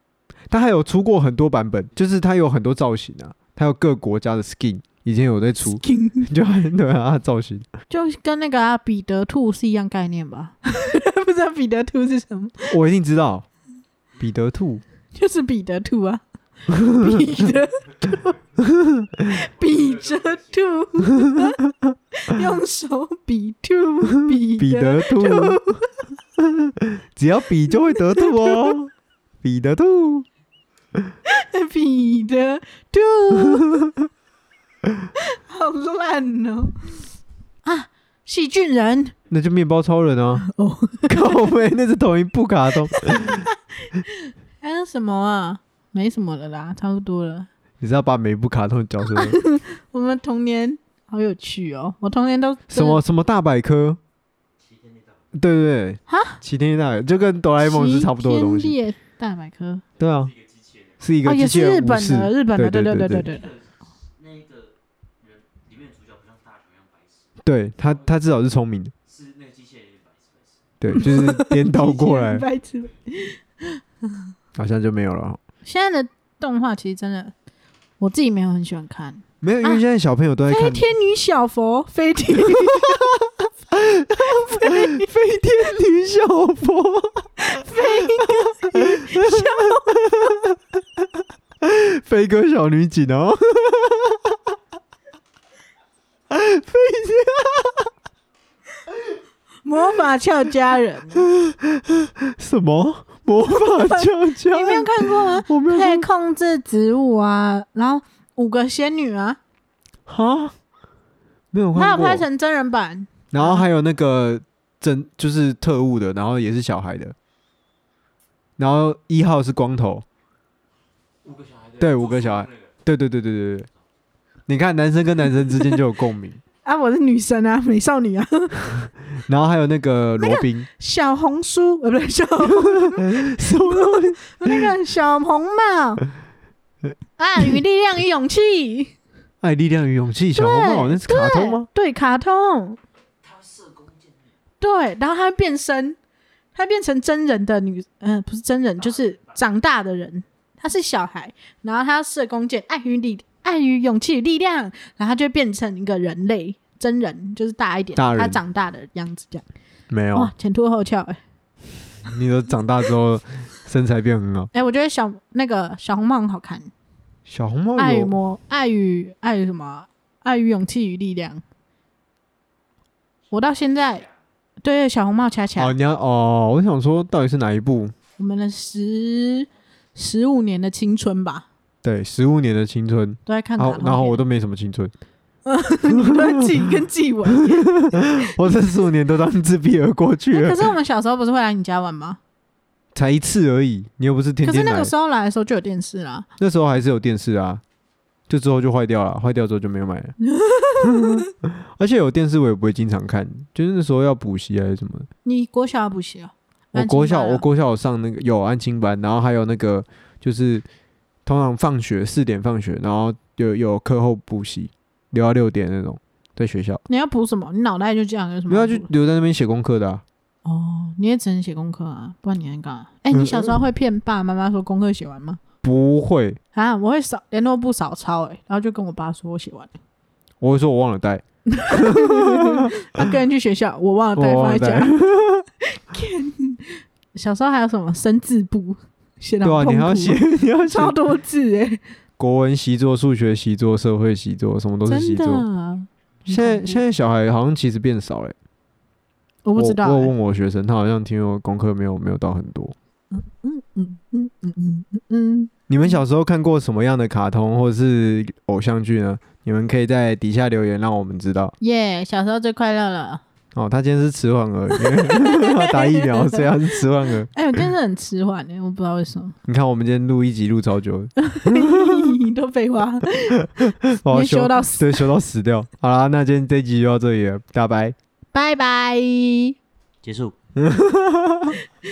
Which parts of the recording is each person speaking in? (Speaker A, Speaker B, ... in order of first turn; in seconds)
Speaker A: 0.5-7.7, 12.7-13.4, 14.2-14.8, 16.7-17.2, 18.6-19.4, 21.2-21.6, 24.3-25.8, 26.4-30.2, 39.3-40.4, 41.1-43.5, 47.8-49.4, 52.7-54.0, 55.3-58.8, 60.0-60.3, 61.0-63.3, 67.4-68.9, 70.8-72.4, 74.5-75.4, 79.4-80.9, 82.6-90.5, 91.6-94.4, 96.3-97.9, 101.3-106.0, 110.1-110.5, 111.5-112.2, 113.3-117.1, 118.6-120.0, 121.8-123.7, 124.5-126.4, 129.3-130.7, 132.6-134.7, 139.4-141.7, 157.9-158.4, 159.9-160.3, 162.0-164.5, 167.2-168.1, 175.6-177.9, 181.8-184.9, 185.9-186.4, 187.5-190.7, 192.9-194.9, 196.4-197.6, 198.3-200.1, 200.8-205.1, 206.7-210.6, 211.2-216.8, 218.5-220.0, 223.1-223.6, 225.6-226.4, 230.4-232.7, 234.2-235.4, 239.4-240.9, 242.2-245.4, 246.3-248.3, 249.6-252.7, 255.7-261.5, 263.5-267.3, 269.5-272.1, 273.8-277.9, 280.6-281.6
Speaker B: 5.8-6.3, 7.9-12.8, 15.1-18.4, 19.2-21.6, 22.1-25.9, 27.7-28.7, 31.2-33.8, 35.2-37.0, 37.6-39.1, 40.4-41.3, 43.0-47.5, 49.1-53.0, 56.1-56.4, 57.6-59.8, 61.2-63.5, 70.9-74.2, 75.6-77.3, 78.0-79.8, 80.5-83.1, 84.2-85.1, 87.4-90.3, 99.6-101.3, 103.4-109.4, 111.7-113.6, 126.6-128.7, 130.2-136.0, 137.2-138.9, 140.3-142.8, 144.6-146.0, 146.5-159.4, 160.1-161.2, 164.5-166.7, 167.8-171.4, 173.3-174.0, 174.6-175.8, 178.2-181.5, 183.2-184.2, 185.4-188.5, 190.3-192.2, 194.4-196.3, 200.2-201.2, 205.2-207.4, 216.9-218.9, 220.4-225.4, 226.5-229.7, 231.5-235.0, 235.7-241.8, 244.8-246.8, 249.4-250.1, 253.1-256.0, 261.6-263.2, 264.7-269.4, 271.2-275.1, 278.3-279.6
Speaker C: 18.2-21.1, 54.6-55.3, 60.0-61.1, 63.2-68.1, 69.0-70.9, 121.2-122.8, 143.2-144.3, 148.8-149.4, 173.3-174.2, 280.0-280.3